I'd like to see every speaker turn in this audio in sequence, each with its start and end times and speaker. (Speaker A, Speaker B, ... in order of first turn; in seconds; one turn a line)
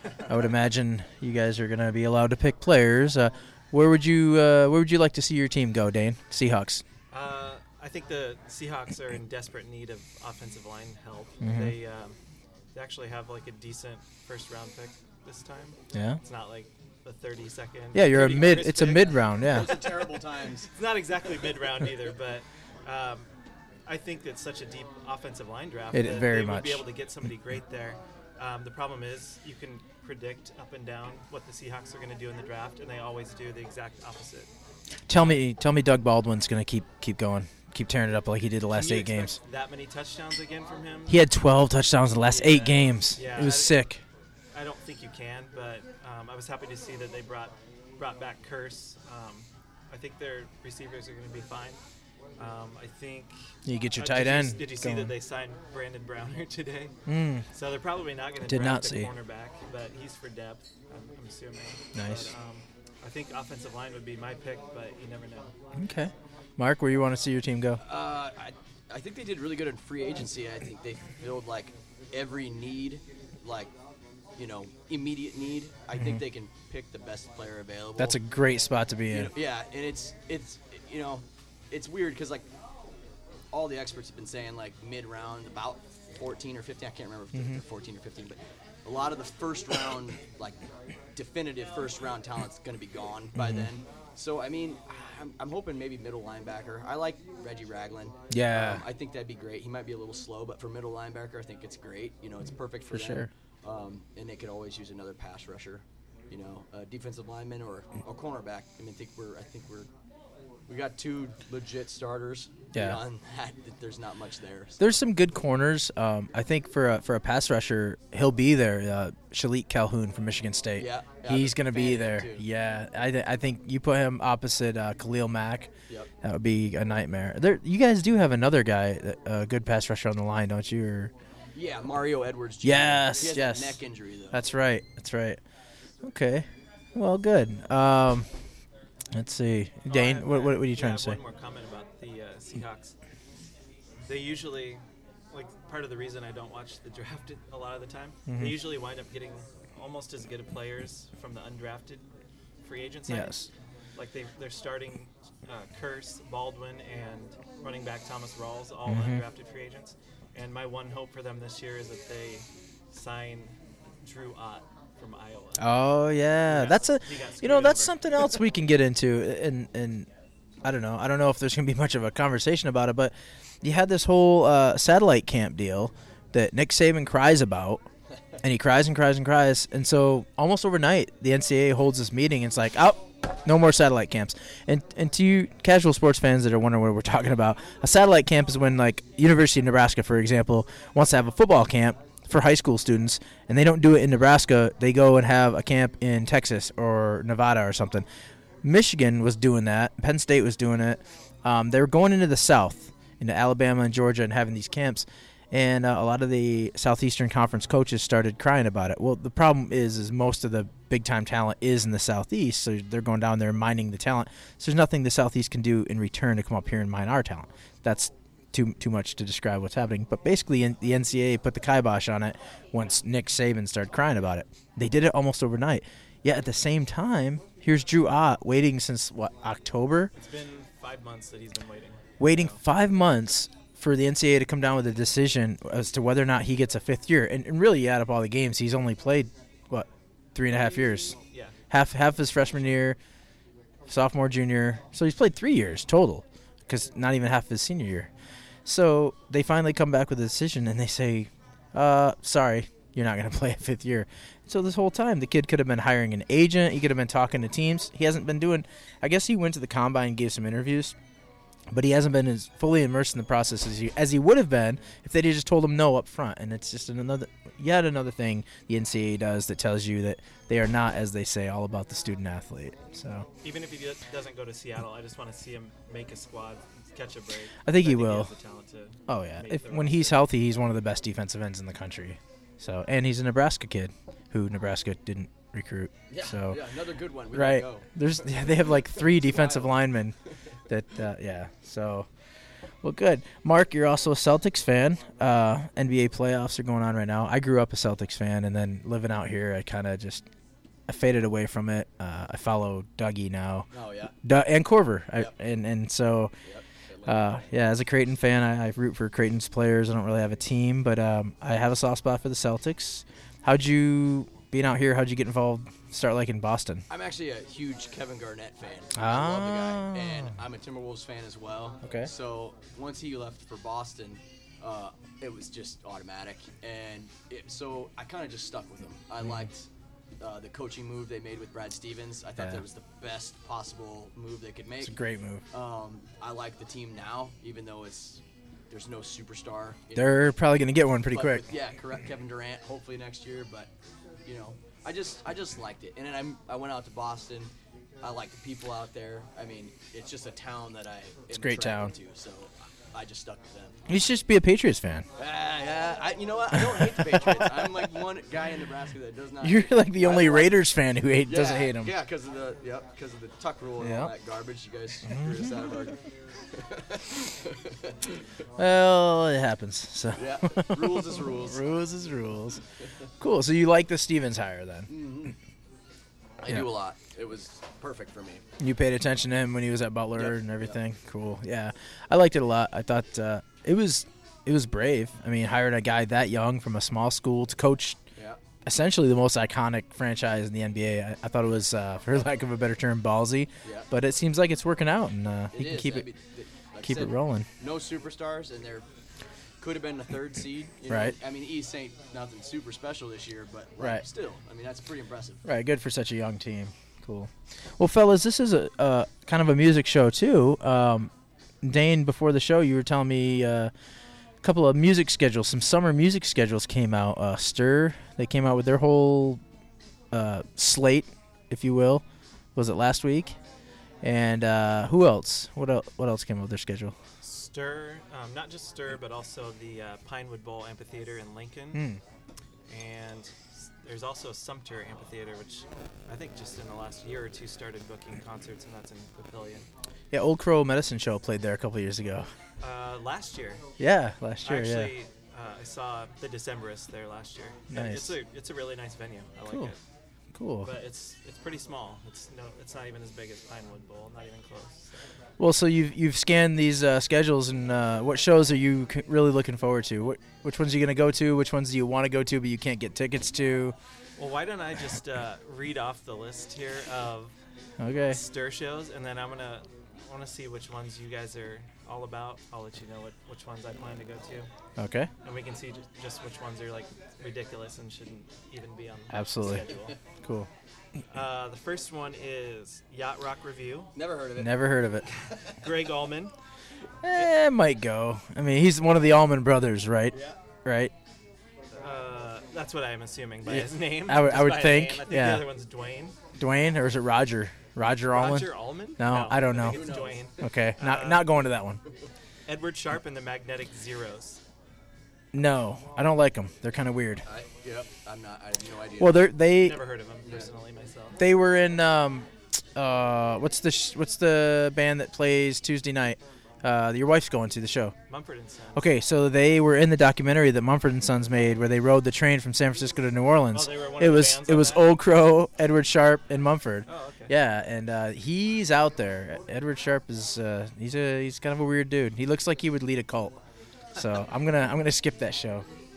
Speaker A: 0.2-6.8
Speaker B: 7.1-12.2
Speaker A: 11.4-11.8
Speaker B: 12.8-19.4
Speaker A: 15.9-16.2
Speaker A: 17.9-19.8
Speaker C: 19.4-20.7
Speaker B: 20.8-23.3
Speaker B: 23.9-34.5
Speaker A: 25.9-26.8
Speaker A: 35.1-39.4
Speaker B: 35.1-35.4
Speaker B: 38.7-41.2
Speaker A: 41.1-44.0
Speaker B: 42.2-43.9
Speaker B: 44.5-51.8
Speaker B: 52.4-53.4
Speaker A: 53.6-55.1
Speaker B: 53.9-56.9
Speaker A: 57.0-57.4
Speaker B: 57.5-65.5
Speaker A: 58.5-59.1
Speaker A: 61.9-62.3
Speaker A: 65.8-67.8
Speaker C: 67.8-73.7
Speaker C: 74.4-78.2
Speaker A: 75.9-76.2
Speaker A: 78.0-79.3
Speaker C: 79.1-82.5
Speaker C: 83.5-90.6
Speaker A: 87.3-87.6
Speaker C: 91.1-109.9
Speaker A: 93.4-93.7
Speaker A: 98.3-98.8
Speaker A: 102.9-103.3
Speaker C: 110.7-115.0
Speaker A: 112.7-113.0
Speaker A: 114.8-125.7
Speaker C: 120.8-122.4
Speaker A: 126.2-131.1
Speaker C: 131.5-134.4
Speaker A: 132.6-133.8
Speaker A: 134.3-135.4
Speaker A: 136.0-138.3
Speaker A: 139.1-141.2
Speaker B: 139.9-142.9
Speaker B: 144.0-152.1
Speaker A: 148.3-148.6
Speaker B: 152.6-153.3
Speaker A: 153.1-153.5
Speaker B: 153.9-165.7
Speaker A: 158.9-159.2
Speaker A: 165.6-170.1
Speaker B: 166.5-168.0
Speaker A: 170.6-177.8
Speaker A: 178.4-198.0
Speaker A: 198.6-230.1
Speaker B: 230.2-232.6
Speaker A: 232.2-241.2
Speaker A: 241.7-243.0
Speaker A: 243.9-248.1
Speaker A: 248.7-260.9
Speaker A: 261.7-273.2
Speaker B: 273.4-280.2
Speaker A: 277.6-278.3
Speaker A: 279.1-286.6
Speaker C: 286.1-287.9
Speaker A: 287.3-290.1
Speaker C: 289.2-289.6
Speaker A: 290.7-292.1
Speaker A: 292.8-300.2
Speaker A: 300.9-303.7
Speaker C: 303.7-304.1
Speaker A: 304.2-306.3
Speaker C: 306.4-307.4
Speaker A: 307.1-316.8
Speaker C: 316.9-329.6
Speaker A: 319.0-320.3
Speaker C: 330.2-334.9
Speaker A: 334.8-335.4
Speaker C: 335.5-340.4
Speaker A: 339.9-341.4
Speaker C: 341.1-343.7
Speaker C: 344.2-353.8
Speaker A: 351.3-351.9
Speaker A: 353.9-355.0
Speaker C: 355.2-360.6
Speaker A: 356.5-357.7
Speaker A: 359.4-361.9
Speaker C: 361.2-366.0
Speaker A: 363.8-364.1
Speaker C: 366.5-367.9
Speaker A: 368.6-372.6
Speaker C: 370.1-371.6
Speaker A: 373.2-374.9
Speaker C: 374.9-375.4
Speaker C: 376.4-378.4
Speaker A: 378.6-388.0
Speaker C: 380.1-380.8
Speaker A: 388.6-396.1
Speaker C: 395.5-398.9
Speaker A: 396.8-397.5
Speaker C: 399.6-405.4
Speaker A: 400.9-401.1
Speaker A: 405.4-411.1
Speaker A: 411.6-413.7
Speaker A: 414.4-419.4
Speaker A: 420.1-422.0
Speaker A: 422.6-423.4
Speaker A: 424.0-426.9
Speaker B: 427.2-431.9
Speaker A: 431.7-432.0
Speaker B: 432.7-439.7
Speaker A: 440.1-442.3
Speaker B: 442.6-443.6
Speaker A: 443.8-444.9
Speaker B: 444.4-449.8
Speaker A: 447.7-448.1
Speaker A: 450.3-450.7
Speaker B: 450.6-455.0
Speaker A: 455.4-463.8
Speaker B: 464.2-467.4
Speaker A: 467.8-468.2
Speaker B: 468.0-474.5
Speaker A: 474.8-475.1
Speaker B: 475.2-479.9
Speaker A: 479.1-479.6
Speaker A: 480.2-480.5
Speaker B: 481.1-483.9
Speaker C: 483.9-484.6
Speaker A: 484.4-485.1
Speaker B: 485.6-486.3
Speaker A: 487.0-490.9
Speaker C: 490.1-490.4
Speaker B: 491.8-496.1
Speaker A: 493.4-495.5
Speaker A: 496.4-501.8
Speaker B: 498.1-501.3
Speaker C: 499.4-500.3
Speaker B: 502.5-504.4
Speaker A: 505.3-507.2
Speaker C: 507.2-509.3
Speaker A: 509.0-509.8
Speaker B: 509.6-511.2
Speaker A: 511.2-517.9
Speaker B: 518.1-518.9
Speaker A: 518.7-533.4
Speaker B: 523.5-524.9
Speaker B: 526.9-527.4
Speaker A: 534.0-535.6